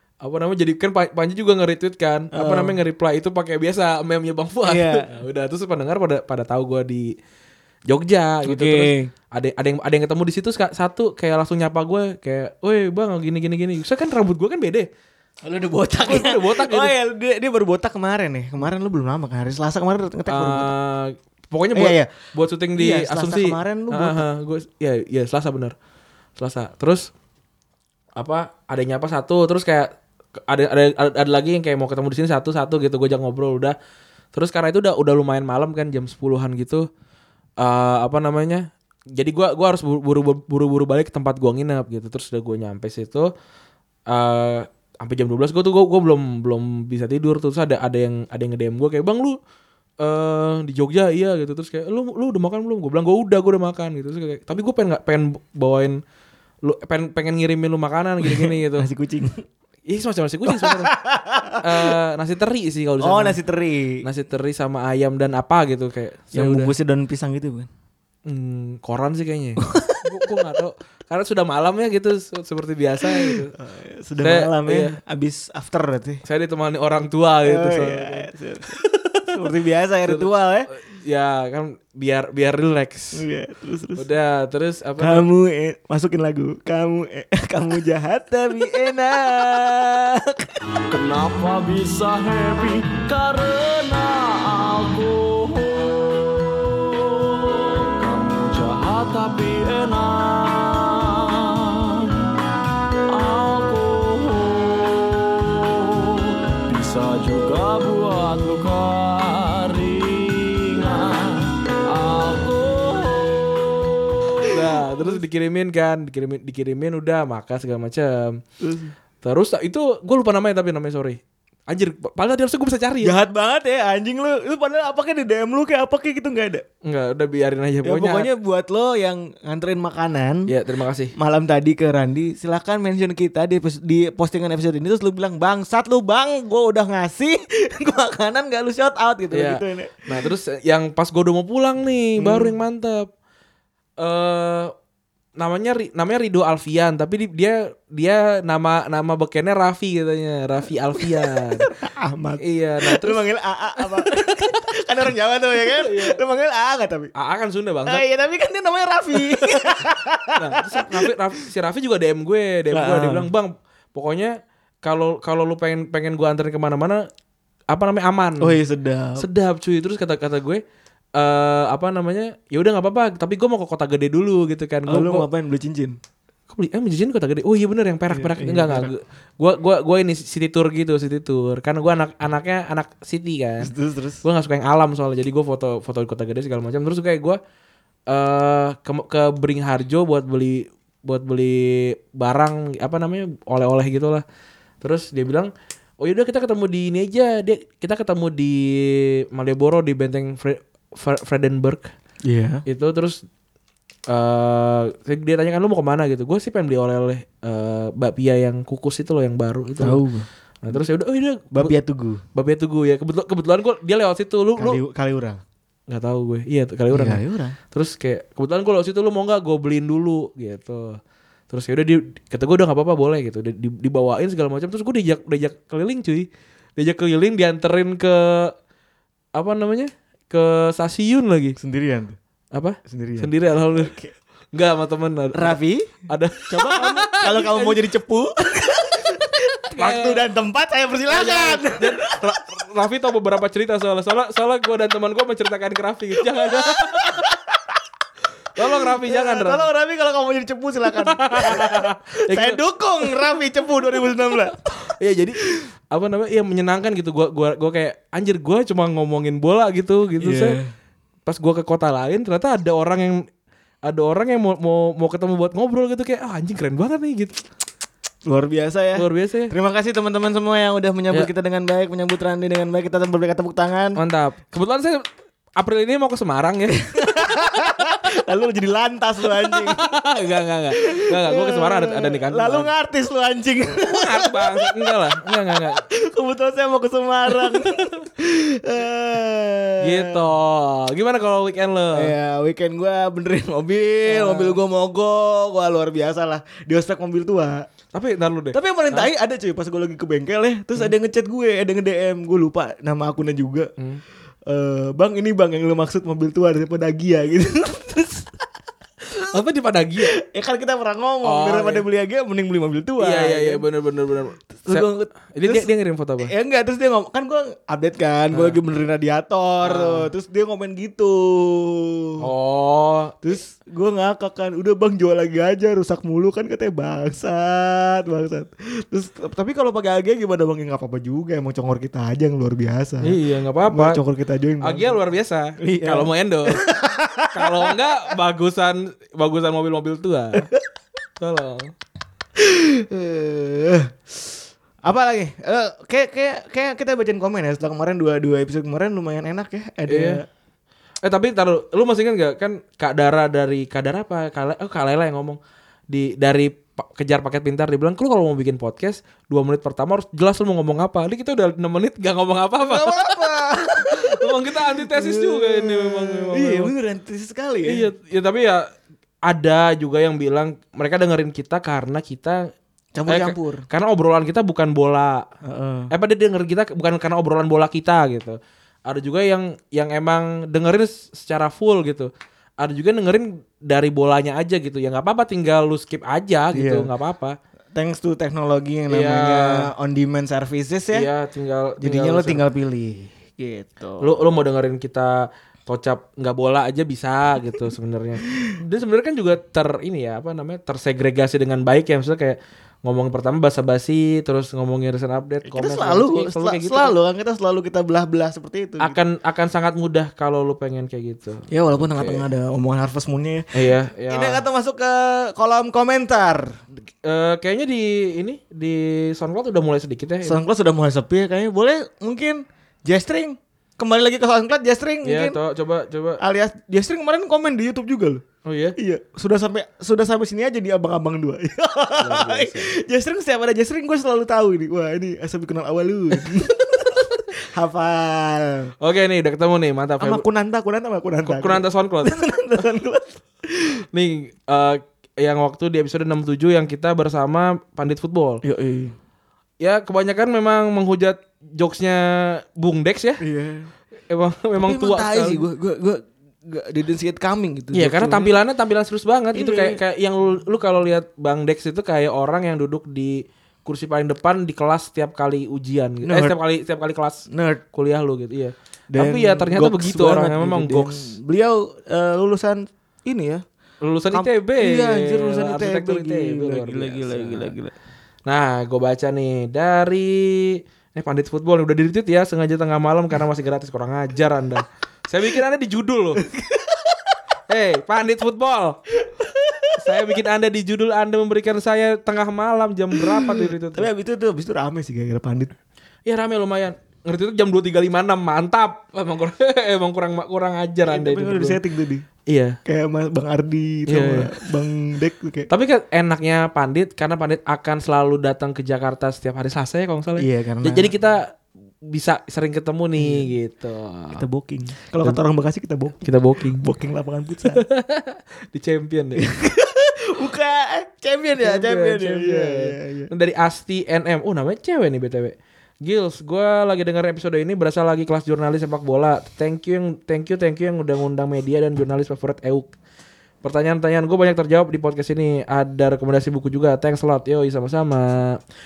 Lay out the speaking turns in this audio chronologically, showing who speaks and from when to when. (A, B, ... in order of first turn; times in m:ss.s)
0:00.2-0:07.1 A
0:02.3-0:02.8 B
0:04.6-0:05.1 B
0:07.9-0:14.9 A
0:08.4-0:09.1 B
0:15.4-0:20.7 B
0:16.0-0:16.9 A
0:20.3-0:25.8 A
0:21.8-0:22.1 B
0:22.8-0:24.2 B
0:26.4-0:27.1 A
0:28.2-0:33.8 A
0:34.3-0:36.9 A
0:37.6-0:43.3 A
0:44.1-0:49.4 A
0:50.0-0:56.0 A
0:56.6-0:58.9 A
0:58.2-0:59.4 B
0:59.8-1:00.9 A
1:00.5-1:01.9 B
1:01.6-1:03.4 A
1:03.0-1:04.0 B
1:04.0-1:06.7 A
1:06.3-1:07.7 B
1:08.2-1:13.5 A
1:09.6-1:10.0 B
1:13.2-1:16.2 B
1:14.2-1:15.0 A
1:16.2-1:19.4 A
1:17.4-1:20.7 B
1:20.1-1:23.2 A
1:23.1-1:24.1 B
1:24.0-1:25.2 A
1:25.0-1:30.4 B
1:30.9-1:42.3 C
1:43.1-1:53.9 C
1:54.5-1:58.4 A
1:58.6-1:58.9 B
1:59.2-2:03.2 A
2:03.0-2:06.6 B
2:06.8-2:08.3 A
2:07.8-2:10.5 B
2:10.5-2:11.1 A
2:11.2-2:20.1 B
2:19.3-2:23.1 A
2:22.2-2:22.6 B
2:24.0-2:24.7 A
2:25.4-2:31.7 A
2:31.8-2:37.1 B
2:32.4-2:33.2 A
2:33.8-2:34.6 A
2:35.6-2:36.2 A
2:37.1-2:38.0 A
2:37.9-2:41.4 B
2:39.1-2:39.8 A
2:40.4-2:47.0 A
2:42.7-2:43.3 B
2:47.7-2:48.6 A
2:48.4-2:49.3 B
2:49.2-2:50.6 A
2:51.2-2:55.3 A
2:54.9-2:56.0 B
2:56.5-3:03.7 A
2:58.1-2:58.9 B
3:03.6-3:04.2 B
3:04.2-3:07.4 A
3:08.1-3:14.2 A
3:14.8-3:21.9 A
3:22.2-3:22.6 B
3:22.7-3:23.2 A
3:24.1-3:30.0 A
3:29.8-3:30.3 B
3:30.6-3:31.8 A
3:31.5-3:32.2 B
3:32.3-3:34.8 A
3:34.6-3:35.4 B
3:35.9-3:37.2 A
3:36.9-3:37.6 B
3:37.7-3:48.6 A
3:49.3-3:51.6 A
3:51.6-3:52.2 B
3:52.5-3:54.0 A
3:52.9-3:54.1 B
3:54.5-3:55.6 A
3:55.3-3:55.9 B
3:56.1-3:57.8 A
3:56.5-4:02.2 B
3:59.7-4:00.2 A
4:01.1-4:07.3 A
4:06.6-4:07.4 B
4:08.6-4:09.7 A
4:08.8-4:14.6 B
4:10.9-4:20.6 A
4:20.2-4:20.7 B
4:21.2-4:23.3 A
4:23.8-4:27.4 A
4:28.2-4:34.0 B
4:28.9-4:29.5 A
4:34.0-4:37.5 A
4:36.9-4:39.9 B
4:39.3-4:42.7 A
4:40.8-4:44.9 B
4:43.8-4:45.8 A
4:46.0-4:50.2 B
4:47.3-4:47.9 A
4:49.8-4:52.1 A
4:51.9-4:57.7 B
4:54.0-4:54.6 A
4:57.9-4:59.1 A
4:58.5-5:03.7 B
5:04.5-5:08.4 B
5:09.3-5:10.1 A
5:10.1-5:13.6 B
5:11.2-5:11.9 A
5:13.0-5:16.3 A
5:14.5-5:15.7 B
5:16.2-5:22.2 B
5:18.3-5:18.6 A
5:19.6-5:20.1 A
5:22.2-5:23.2 A
5:23.2-5:35.0 B
5:33.0-5:34.0 A
5:34.6-5:36.6 A
5:35.6-5:38.1 B
5:37.3-5:40.5 A
5:41.2-5:41.7 A
5:42.4-5:44.0 B
5:44.8-5:50.2 B
5:49.9-5:50.2 A
5:51.0-5:55.4 A
5:55.9-6:03.3 A
6:02.6-6:07.9 B
6:03.9-6:06.7 A
6:07.6-6:08.6 A
6:09.2-6:12.5 A
6:12.9-6:13.6 B
6:13.1-6:15.3 A
6:15.4-6:15.9 B
6:15.9-6:27.4 A
6:26.5-6:26.9 B
6:27.8-6:31.1 B
6:28.9-6:29.7 A
6:30.9-6:32.4 A
6:31.8-6:34.3 B
6:34.0-6:47.0 A
6:45.4-6:49.0 B
6:48.8-6:52.2 A
6:51.5-6:53.5 B
6:53.5-6:54.4 A
6:54.1-6:56.6 B
6:57.0-7:00.4 A
7:00.2-7:05.4 B
7:05.0-7:06.2 A
7:06.2-7:08.2 B
7:08.4-7:08.8 A
7:08.8-7:18.7 B
7:12.0-7:12.7 A
7:18.8-7:20.2 A
7:20.0-7:23.6 B
7:21.2-7:22.1 A
7:23.9-7:28.4 A
7:28.4-7:28.9 B
7:29.6-7:33.2 A
7:33.2-7:33.7 B
7:34.1-7:35.4 A
7:34.6-7:38.4 B
7:37.7-7:51.1 A
7:39.3-7:39.8 B
7:46.0-7:46.4 B
7:47.3-7:47.6 B
7:48.9-7:53.4 B
7:53.8-7:57.5 A
7:54.1-7:57.7 B
7:58.3-8:06.2 A
8:06.3-8:06.8 B
8:07.5-8:08.8 A
8:09.4-8:09.8 B
8:09.8-8:13.9 A
8:13.1-8:15.5 B
8:16.0-8:21.6 A
8:20.9-8:22.0 B
8:22.3-8:22.6 A
8:22.6-8:25.5 B
8:23.9-8:24.4 A
8:25.5-8:34.2 A
8:30.2-8:30.9 B
8:33.0-8:33.3 B
8:34.1-8:37.6 B
8:36.0-8:36.6 A
8:37.4-8:39.2 A
8:39.2-8:43.1 B
8:41.4-8:52.7 A
8:53.4-8:58.4 A